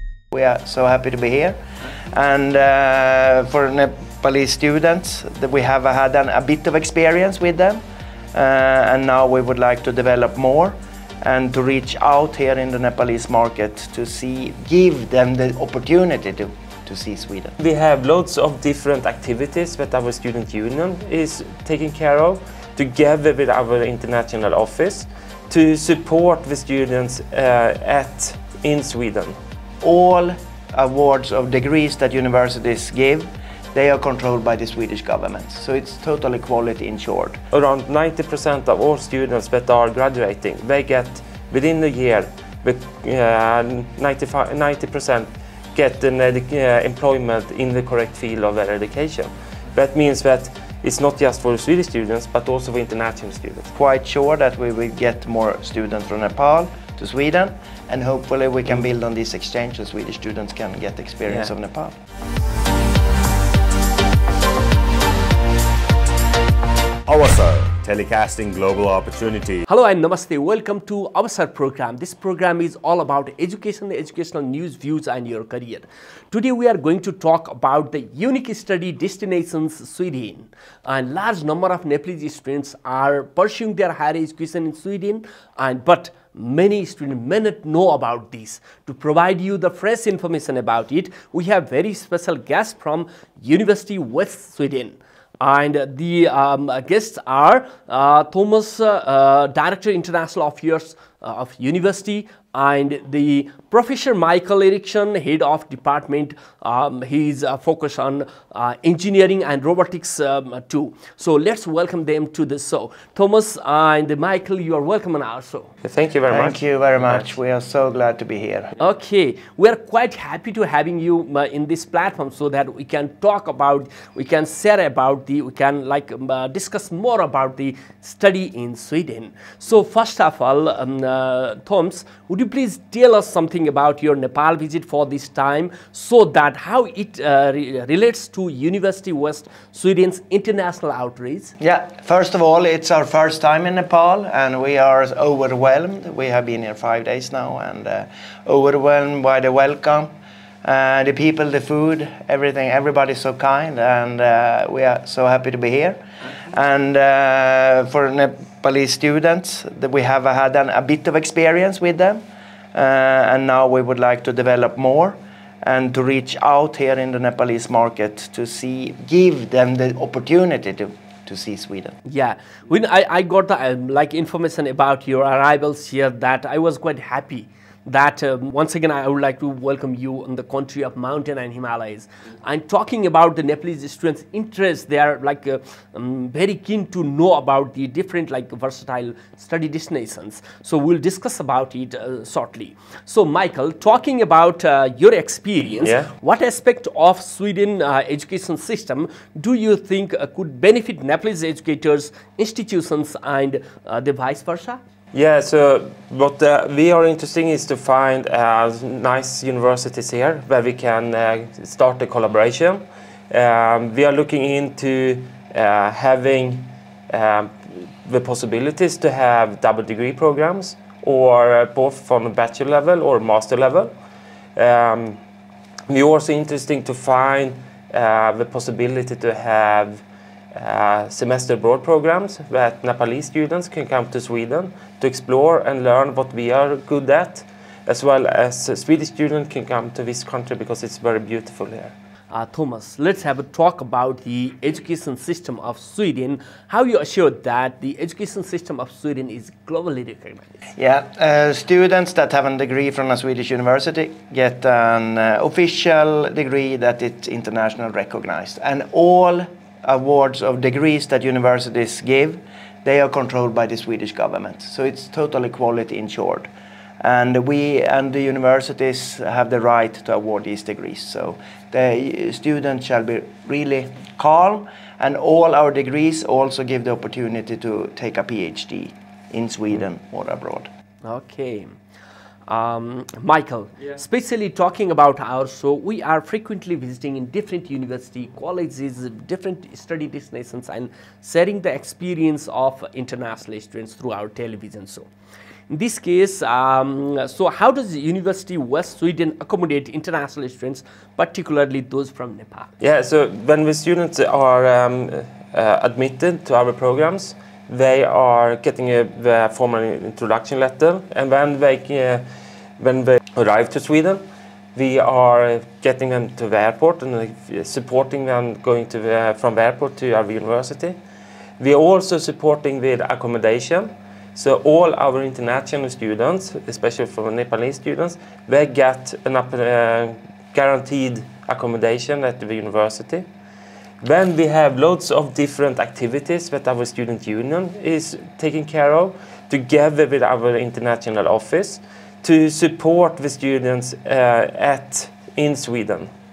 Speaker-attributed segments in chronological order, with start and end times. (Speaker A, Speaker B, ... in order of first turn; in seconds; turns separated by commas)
Speaker A: 0.3-7.8, Speaker A: 8.3-17.6, Speaker B: 17.6-29.4, Speaker A: 29.8-37.4, Speaker B: 37.5-53.7, Speaker A: 53.8-62.0, Speaker C: 67.1-69.6, Speaker D: 69.7-115.7, Speaker B: 115.8-116.6, Speaker A: 116.3-118.7, Speaker D: 118.8-141.5, Speaker A: 141.6-150.1, Speaker A: 150.6-162.2, Speaker A: 162.7-171.9, Speaker D: 172.1-204.8, Speaker B: 195.8-196.1, Speaker B: 205.1-223.9, Speaker B: 224.6-225.2, Speaker B: 225.9-230.0, Speaker B: 230.5-241.9, Speaker D: 242.3-250.6, Speaker A: 250.8-266.5, Speaker A: 267.0-280.7, Speaker D: 281.0-281.8, Speaker D: 282.5-295.1, Speaker D: 295.7-302.7, Speaker B: 302.8-312.2, Speaker B: 312.8-314.2, Speaker B: 314.8-321.0, Speaker B: 321.6-333.3, Speaker B: 334.0-346.1